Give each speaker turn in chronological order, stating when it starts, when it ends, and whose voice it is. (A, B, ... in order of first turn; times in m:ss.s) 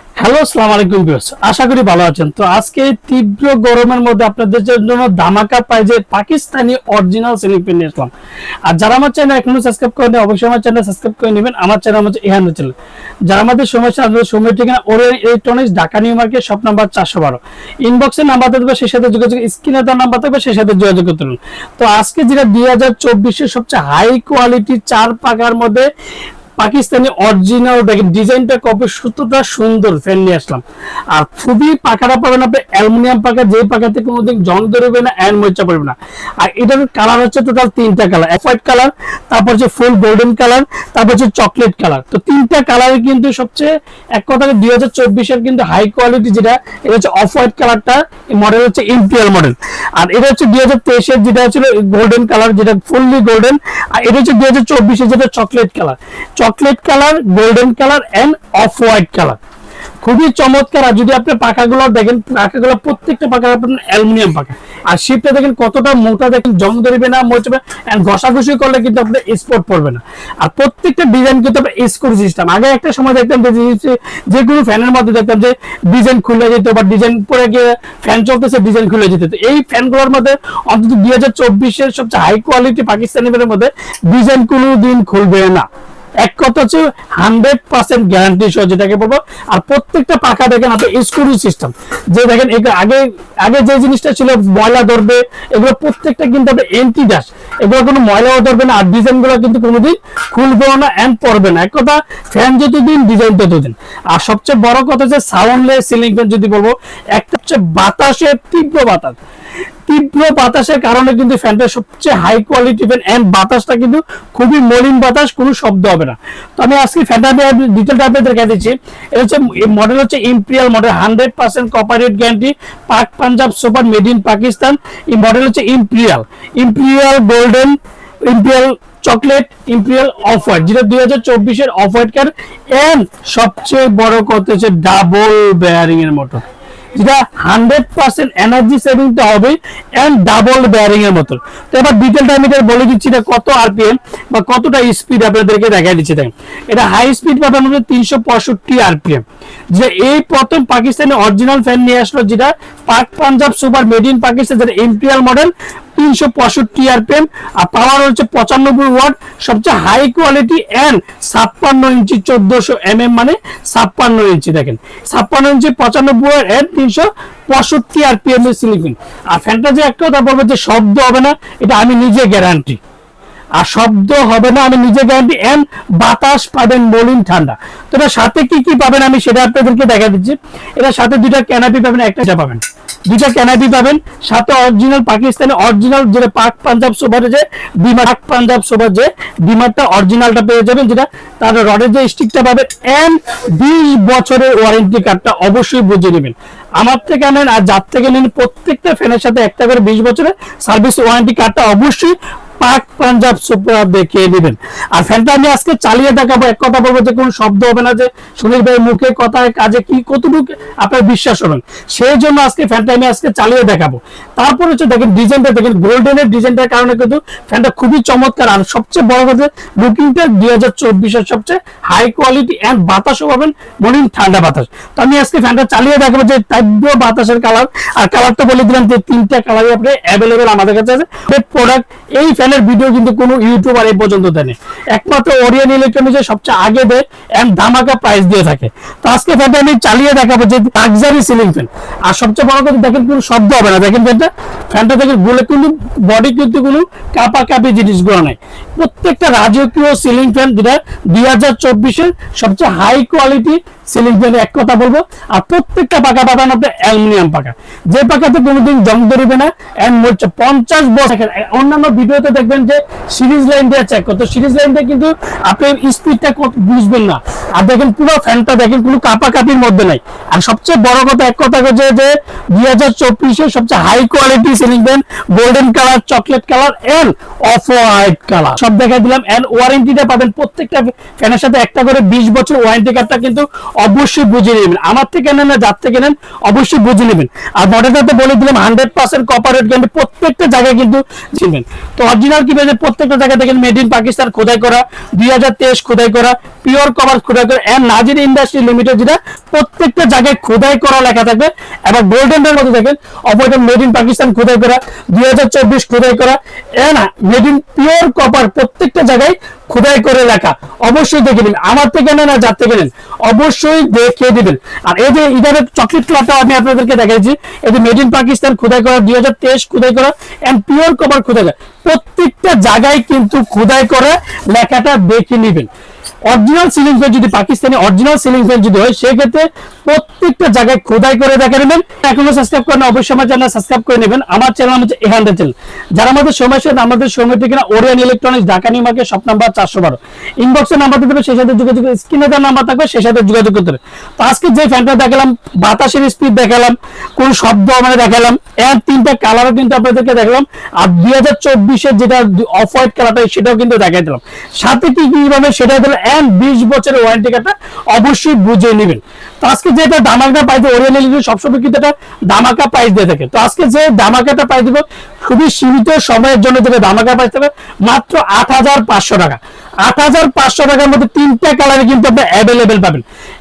0:00.2-0:08.1 A
0:08.7-0:12.8 A
0:13.3-0:25.9 A
0:26.6-0:59.4 A
1:00.0-1:25.7 A
1:26.2-1:49.2 A
1:49.9-2:16.4 A
2:17.0-2:52.8 A
2:53.6-5:25.7 A
5:26.3-6:13.0 A